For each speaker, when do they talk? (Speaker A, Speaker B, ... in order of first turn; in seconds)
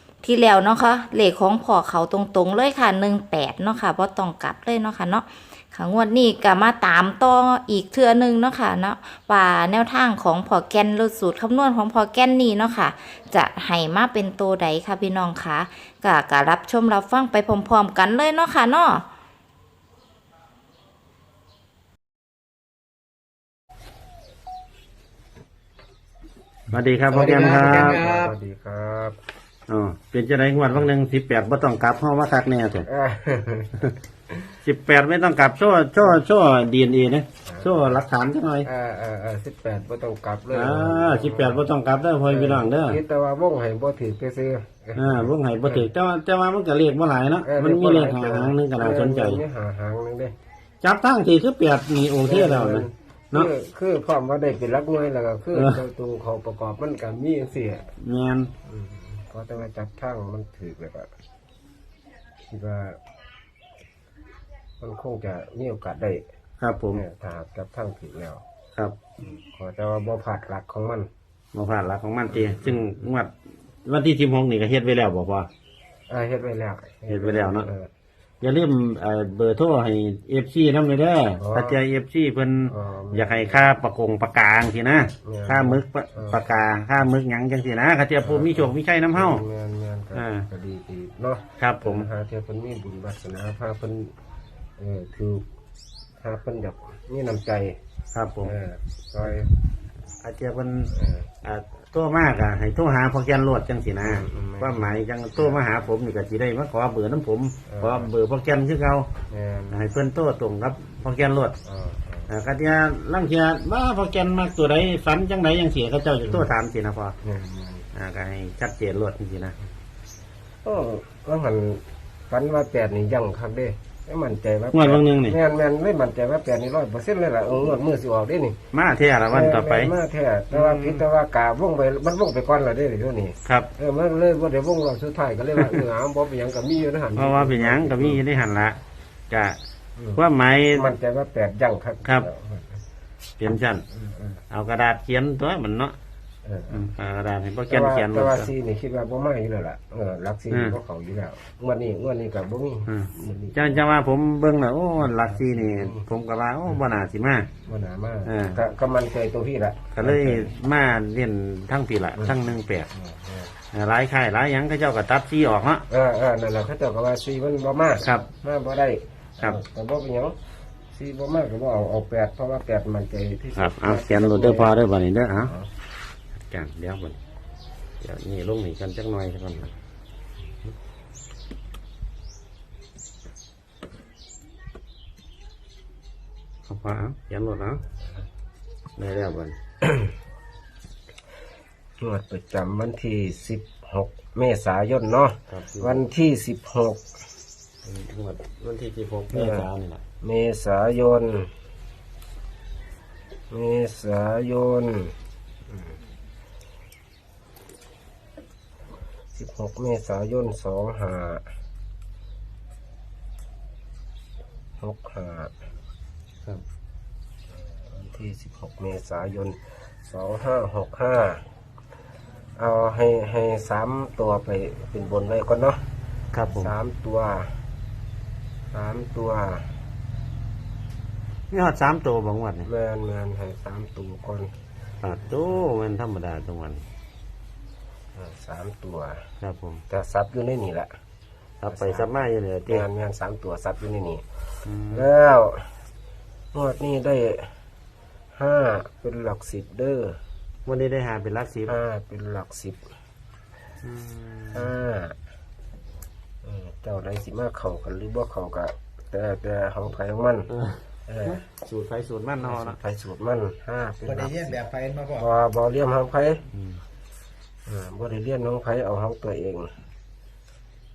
Speaker A: 0.2-19.1
Speaker B: 26.7-28.1, 29.7-32.9, 34.6-38.7, 40.5-43.0, 45.0-49.4, 50.8-53.5, 55.5-55.8, 58.0-58.5, 66.6-67.0, 71.5-73.3, 73.8-75.5, 77.1-77.7, 78.4-89.4, 90.1-90.5, 91.6-92.1, 98.1-98.5, 100.2-109.1, 109.7-111.5, 112.3-117.1, 117.9-119.6, 124.7-125.4, 128.7-129.9, 130.5-131.0, 137.2-138.8, 139.3-139.6, 140.2-140.9, 143.4-143.8, 144.5-146.0, 146.7-148.5, 150.5-150.8, 152.9-157.5, 158.2-158.6, 159.9-162.9, 163.7-165.8, 168.0-168.3, 173.6-175.6, 176.4-177.2, 178.0-179.7, 186.7-187.8, 189.0-189.6, 195.5-196.0, 197.8-200.0, 226.3-226.7, 231.5-232.7, 235.0-236.8, 239.4-239.8, 241.6-242.9, 244.7-245.1, 250.7-251.8, 253.8-254.7, 260.5-262.8, 266.5-266.8
Speaker C: 27.1-28.3, 264.1-265.3
Speaker D: 27.2-29.2, 32.8-34.5, 37.5-38.0, 38.6-41.7, 42.3-45.9, 47.4-50.3, 52.2-57.9, 58.6-61.1, 62.5-63.0, 64.8-66.2, 66.9-68.4, 69.2-71.1, 72.3-72.8, 76.1-77.9, 81.3-81.8, 82.7-83.8, 85.2-86.4, 88.2-94.1, 94.8-95.5, 96.2-97.8, 98.4-99.5, 100.9-101.3, 104.0-105.9, 107.7-108.1, 109.3-109.8, 111.6-112.3, 116.2-116.5, 117.2-117.9, 120.6-128.6, 129.3-138.2, 140.0-140.2, 140.7-142.8, 143.9-144.4, 146.4-146.9, 147.7-153.8, 155.0-156.0, 157.7-160.5, 162.2-163.5, 165.9-170.4, 170.9-174.8, 175.3-175.7, 189.8-190.1, 192.0-197.0, 199.3-199.7, 200.2-201.5, 203.5-205.1, 209.3-211.4, 214.8-215.5, 217.8-221.4, 222.6-225.8, 226.6-227.5, 228.7-229.7, 232.6-234.5, 238.2-239.3, 239.9-240.9, 241.7-242.2, 242.7-244.2, 244.9-245.7, 246.5-247.6, 248.3-250.2, 251.7-252.8, 254.5-255.2, 256.4-260.5, 261.1-261.4, 262.4-264.6, 265.1-266.4, 267.7-269.7